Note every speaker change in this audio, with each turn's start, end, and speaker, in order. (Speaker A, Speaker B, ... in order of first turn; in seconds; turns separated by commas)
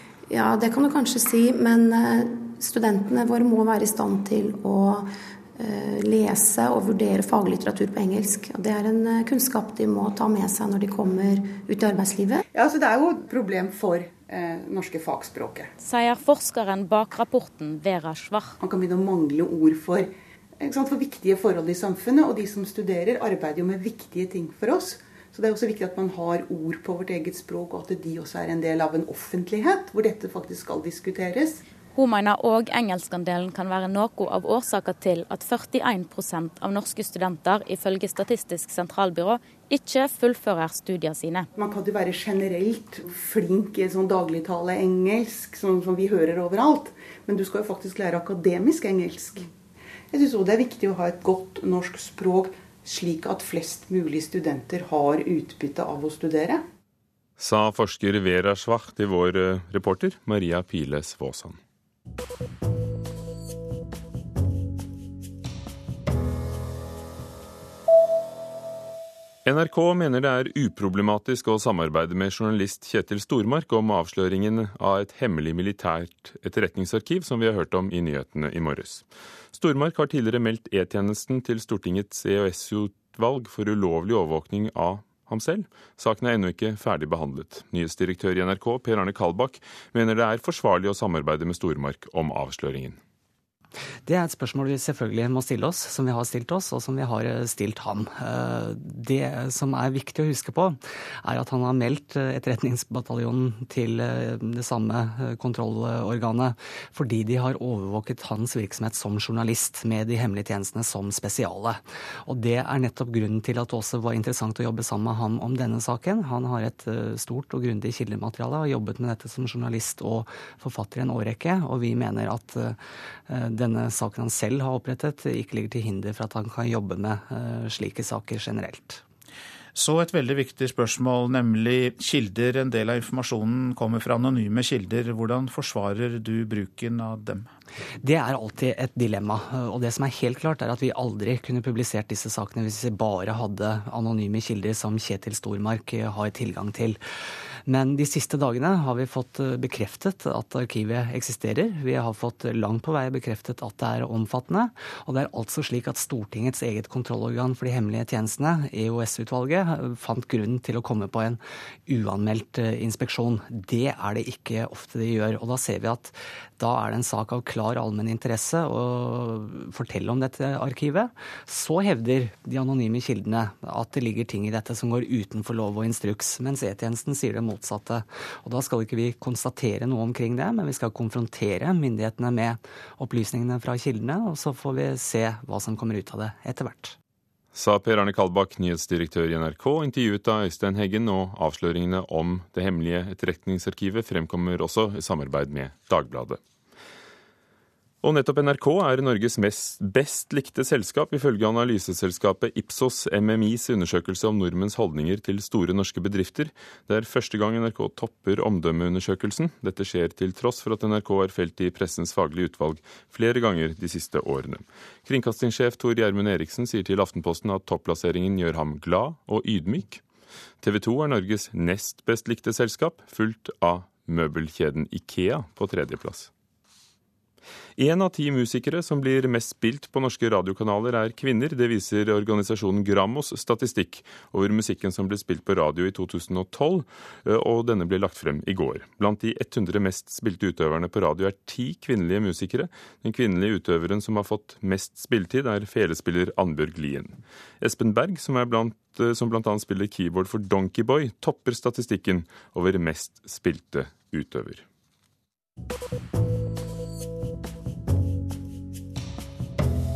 Speaker A: 0.3-12.4, Speaker B: 12.5-15.7, Speaker C: 15.8-18.6, Speaker B: 18.6-31.6, Speaker C: 31.9-41.5, Speaker B: 41.6-49.5, Speaker B: 50.1-56.6, Speaker D: 57.4-61.6, Speaker D: 69.4-93.0, Speaker E: 94.0-122.8, Speaker E: 123.3-129.0, Speaker F: 129.7-137.5, Speaker E: 138.0-147.0, Speaker E: 147.7-186.9, Speaker D: 187.5-196.4, Speaker D: 198.0-220.0, Speaker D: 220.6-226.3, Speaker D: 227.8-254.6